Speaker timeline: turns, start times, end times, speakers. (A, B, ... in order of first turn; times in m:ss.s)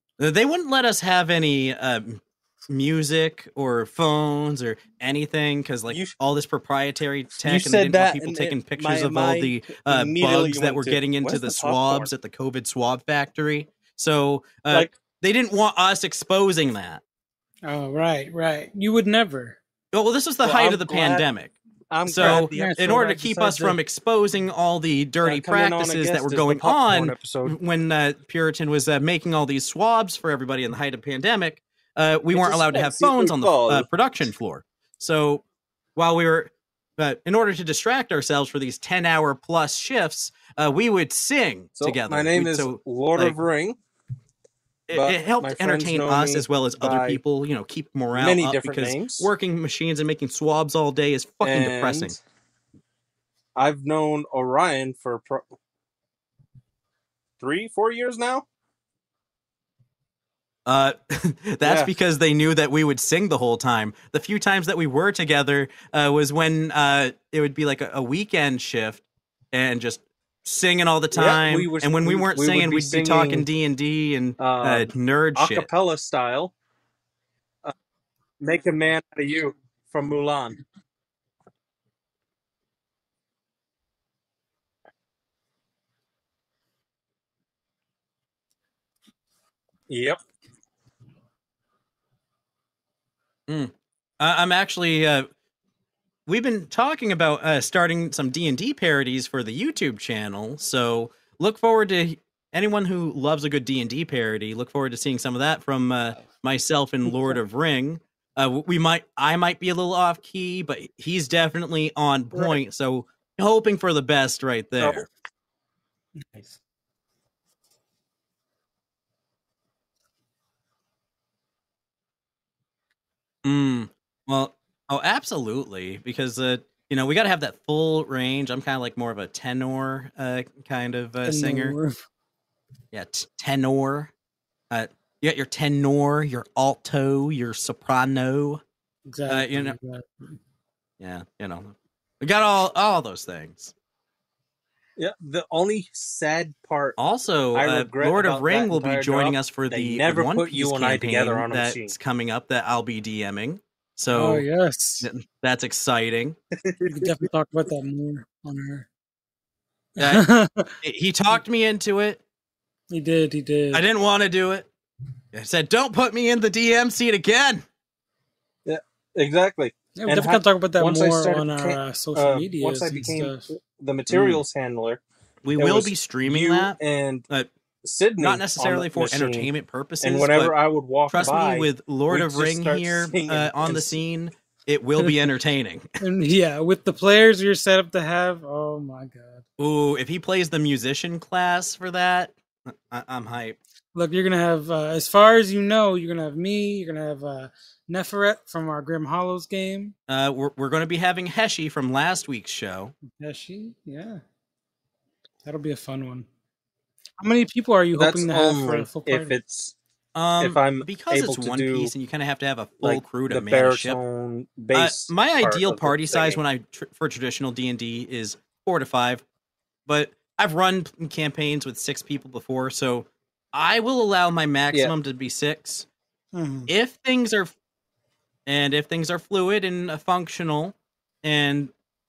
0:00.2-0:17.0 A
0:05.9-0:06.1 B
0:07.4-0:12.1 B
0:17.6-0:19.6 C
0:19.9-0:21.5 A
0:20.4-0:21.2 B
0:21.9-0:23.2 B
0:22.0-0:35.4 A
0:22.2-0:23.7 C
0:25.2-0:27.6 B
0:32.3-0:33.9 B
0:36.0-0:43.4 A
0:41.8-0:43.8 B
0:44.9-0:52.2 A
0:44.9-0:47.2 B
0:48.1-0:49.3 B
0:51.4-0:52.2 B
0:53.6-0:55.4 B
0:57.4-0:58.4 B
1:00.6-1:15.7 A
1:01.6-1:01.9 B
1:11.1-1:13.4 B
1:14.4-1:16.5 B
1:18.4-1:20.6 B
1:29.9-1:30.2 B
1:33.5-1:35.3 A
1:36.3-1:55.1 A
1:56.2-1:56.6 C
2:03.4-2:11.8 A
2:11.2-2:11.9 C
2:12.9-2:14.1 A
2:14.7-2:18.6 A
2:19.1-2:20.4 C
2:19.3-2:19.7 A
2:21.0-2:23.7 A
2:25.0-2:27.0 B
2:27.0-2:34.4 A
2:27.5-2:31.9 B
2:34.1-2:35.1 C
2:35.0-2:36.4 A
2:36.6-2:37.2 B
2:36.8-2:38.9 C
2:40.0-2:40.2 A
2:40.0-2:40.8 C
2:40.8-2:42.2 A
2:42.9-2:43.8 C
2:43.7-2:44.7 A
2:45.3-2:47.6 A
2:48.6-2:55.0 B
2:50.0-2:53.5 C
2:54.1-2:54.4 A
2:55.4-2:56.8 A
2:55.5-2:57.2 B
2:57.8-2:59.5 B
2:58.2-3:00.5 A
3:00.0-3:04.0 B
3:01.1-3:05.8 A
3:06.0-3:09.4 C
3:09.6-3:13.6 A
3:13.9-3:19.9 C
3:20.1-3:22.9 A
3:23.1-3:24.2 C
3:25.4-3:26.3 C
3:27.2-3:29.4 C
3:28.0-3:29.7 B
3:30.1-3:34.0 A
3:30.4-3:31.9 B
3:32.8-3:36.4 B
3:34.7-3:39.2 A
3:39.9-3:45.9 A
3:46.3-3:46.7 C
3:46.7-3:47.5 A
3:48.4-3:51.7 A